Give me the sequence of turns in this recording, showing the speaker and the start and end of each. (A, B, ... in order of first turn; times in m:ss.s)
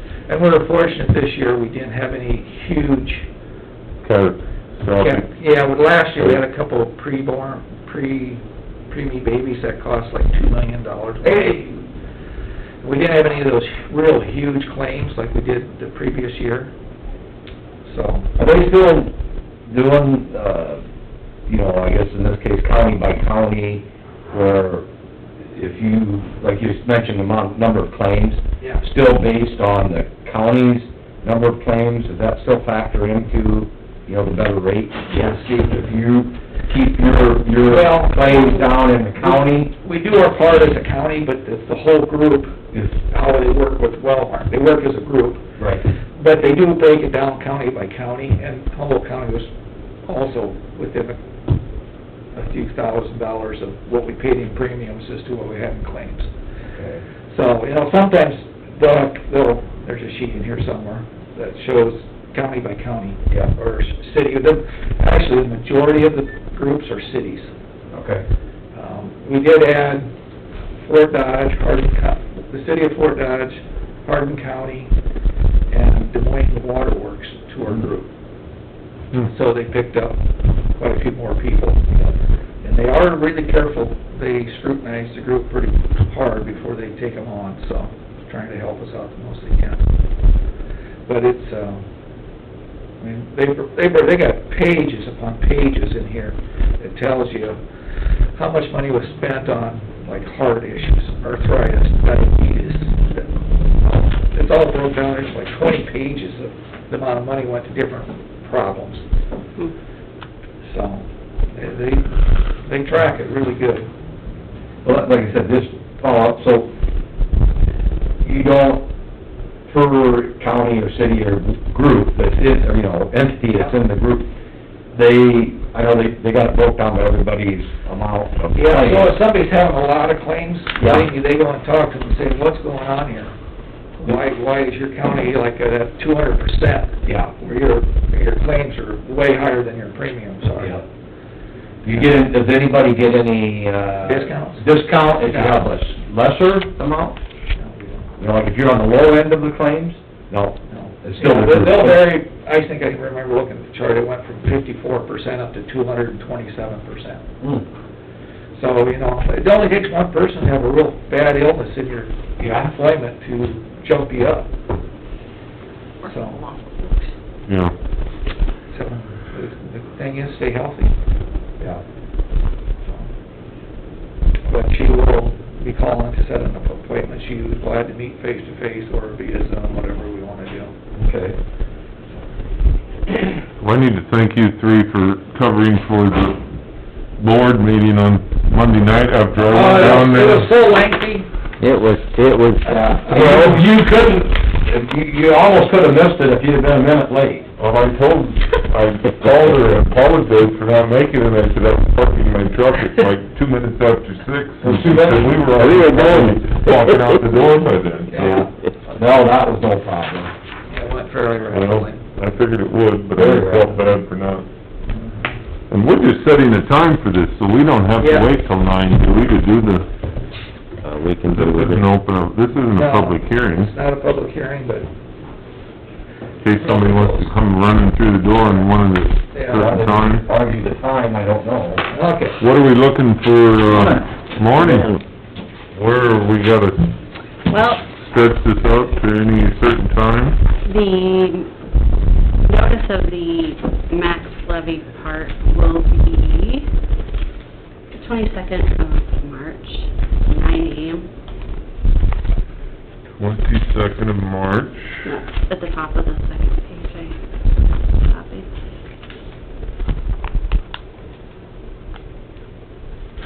0:00.3-0:03.3 A
0:04.0-0:05.3 B
0:05.0-0:11.8 A
0:12.8-0:16.7 A
0:17.8-0:18.3 A
0:18.4-0:19.1 C
0:19.7-0:20.8 C
0:21.5-0:24.9 C
0:25.4-0:39.7 C
0:35.1-0:35.4 A
0:37.6-0:49.5 A
0:45.6-0:45.8 C
0:50.0-0:51.2 A
0:52.3-0:56.3 A
0:56.7-0:57.0 C
0:57.3-1:07.5 A
1:07.9-1:08.2 C
1:08.7-1:10.1 A
1:10.8-1:14.9 A
1:15.7-1:18.1 A
1:19.2-1:20.2 A
1:20.8-1:29.8 A
1:31.0-1:31.8 A
1:33.0-1:37.6 A
1:38.3-1:49.0 A
1:50.6-1:53.9 A
1:54.8-1:56.7 C
1:58.2-1:58.9 C
1:59.7-2:04.3 C
2:04.9-2:09.1 C
2:08.5-2:13.3 A
2:10.8-2:11.1 C
2:14.0-2:20.8 A
2:20.6-2:20.8 C
2:21.8-2:27.2 C
2:24.0-2:25.6 A
2:27.5-2:28.1 A
2:28.2-2:32.1 C
2:30.7-2:37.2 A
2:38.5-2:44.5 A
2:42.4-2:42.7 C
2:46.0-2:47.1 D
2:46.0-2:46.4 A
2:47.5-2:47.7 B
2:48.7-2:50.9 A
2:52.8-2:53.1 A
2:54.4-3:00.7 A
3:01.0-3:01.4 C
3:03.6-3:06.4 B
3:07.2-3:10.5 B
3:09.4-3:11.3 A
3:11.6-3:12.8 E
3:12.6-3:13.6 A
3:12.7-3:17.5 C
3:17.6-3:28.5 B
3:24.6-3:26.3 C
3:28.1-3:28.5 A
3:28.9-3:30.3 C
3:30.7-3:32.0 A
3:31.5-3:34.5 B
3:33.1-3:33.8 C
3:34.8-3:35.4 A
3:35.7-3:39.9 B
3:38.0-3:38.3 A
3:40.8-3:41.8 E
3:41.2-3:43.7 B
3:42.7-3:44.9 A
3:46.4-3:50.2 B
3:46.6-3:47.3 A
3:49.3-3:49.7 A
3:49.5-3:51.8 C
3:51.9-3:52.4 A
3:52.4-3:55.0 B
3:54.6-3:55.0 E
3:55.7-3:56.9 B
3:57.5-3:57.8 D
3:57.9-4:00.4 B
4:00.6-4:01.5 D
4:02.5-4:06.7 D
4:07.9-4:11.1 D
4:13.2-4:15.0 B
4:15.0-4:17.2 D
4:17.9-4:18.5 D